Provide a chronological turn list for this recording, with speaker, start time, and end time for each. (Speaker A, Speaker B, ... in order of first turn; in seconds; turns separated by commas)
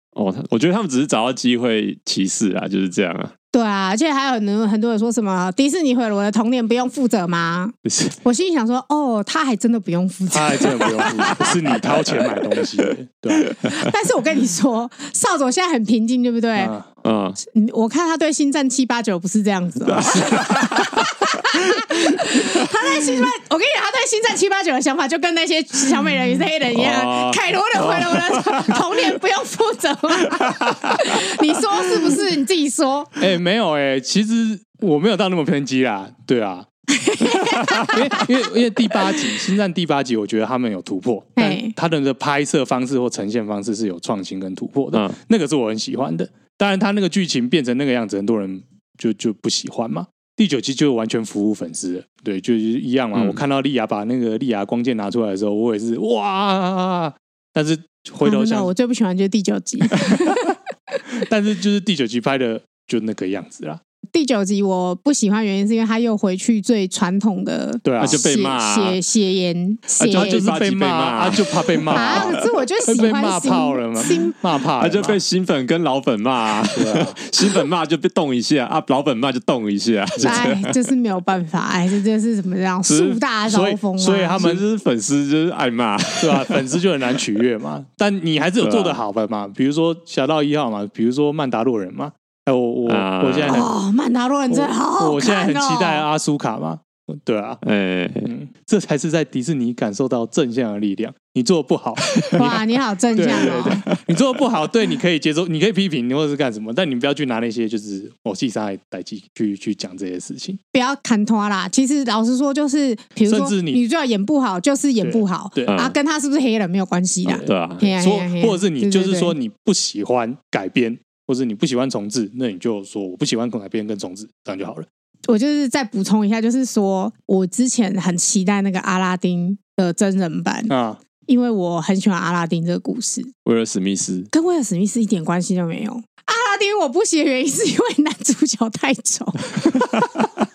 Speaker A: 0.1-3.3, Speaker B: 3.5-11.6, Speaker A: 7.9-8.1, Speaker C: 10.3-13.6, Speaker B: 13.6-16.7, Speaker C: 16.6-16.9, Speaker A: 17.0-17.4, Speaker B: 17.4-33.2, Speaker A: 20.0-21.0, Speaker A: 26.7-29.2, Speaker A: 30.3-31.2, Speaker C: 33.2-36.7, Speaker B: 36.9-38.3, Speaker C: 37.9-58.7, Speaker B: 38.9-39.1, Speaker B: 41.4-41.7, Speaker B: 58.2-61.0, Speaker C: 60.0-60.4, Speaker C: 61.2-63.8, Speaker B: 64.1-70.4, Speaker C: 67.8-68.2, Speaker A: 68.0-69.0, Speaker A: 70.0-72.4, Speaker C: 70.1-75.2, Speaker B: 71.9-74.4, Speaker A: 74.8-80.7, Speaker C: 76.7-77.2, Speaker C: 80.2-80.5, Speaker B: 80.2-84.4, Speaker A: 82.9-83.2, Speaker C: 83.5-84.7, Speaker A: 84.4-86.7, Speaker C: 86.2-93.7, Speaker A: 88.6-89.0, Speaker A: 92.9-93.7, Speaker B: 93.4-96.0, Speaker C: 94.5-97.6, Speaker A: 97.6-98.3, Speaker C: 98.2-102.6, Speaker A: 102.2-102.6, Speaker B: 102.3-103.9, Speaker C: 103.1-110.6, Speaker A: 103.2-104.2, Speaker B: 110.7-119.3, Speaker C: 113.3-113.8, Speaker C: 115.0-115.8, Speaker A: 115.7-116.0, Speaker A: 117.3-117.8, Speaker C: 117.4-124.9, Speaker B: 125.3-130.7, Speaker C: 130.7-131.0, Speaker B: 131.2-133.3, Speaker A: 133.4-134.3, Speaker B: 134.3-139.5